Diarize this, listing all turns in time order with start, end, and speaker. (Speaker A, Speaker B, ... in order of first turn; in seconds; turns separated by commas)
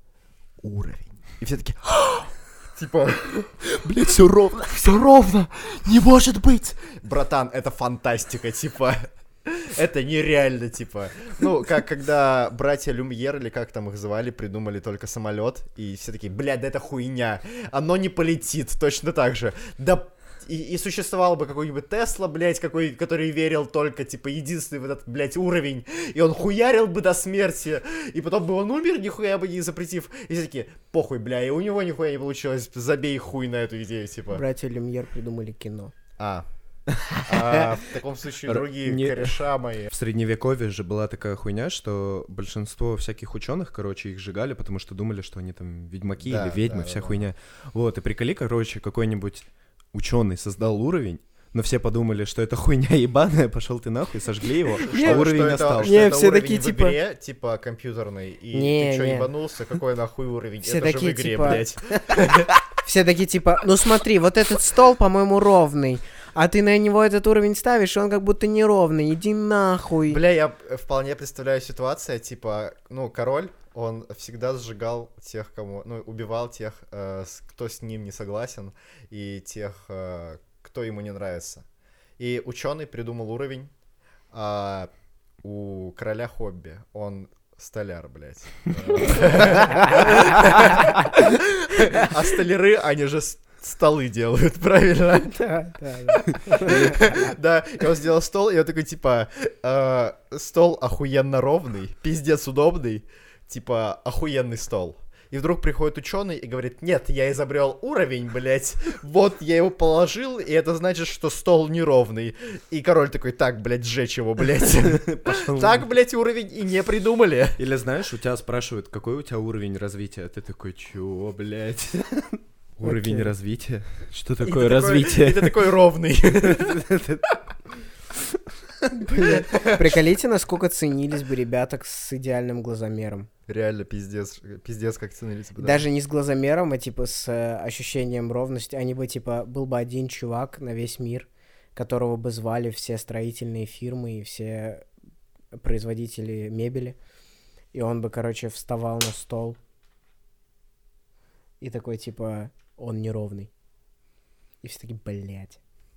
Speaker A: 0.6-34.4, Speaker B: 34.3-36.0, Speaker A: 36.2-36.5, Speaker C: 36.9-37.8, Speaker A: 37.3-39.9, Speaker C: 38.5-56.1, Speaker A: 46.2-47.2, Speaker B: 54.9-57.0, Speaker A: 54.9-62.5, Speaker B: 58.5-59.3, Speaker B: 60.6-61.6, Speaker B: 62.8-70.2, Speaker A: 70.1-81.6, Speaker A: 82.2-83.7, Speaker A: 84.3-84.9, Speaker A: 85.4-95.5, Speaker B: 89.3-90.5, Speaker B: 95.4-97.3, Speaker A: 96.1-117.6, Speaker C: 114.9-115.8, Speaker C: 117.6-125.6, Speaker B: 122.8-123.3, Speaker A: 124.4-126.8, Speaker C: 126.4-127.4, Speaker B: 128.9-133.3, Speaker A: 129.2-130.0, Speaker A: 133.5-135.8, Speaker B: 135.6-144.9, Speaker B: 145.5-147.0, Speaker B: 147.7-149.6, Speaker B: 151.6-153.5, Speaker B: 154.6-155.6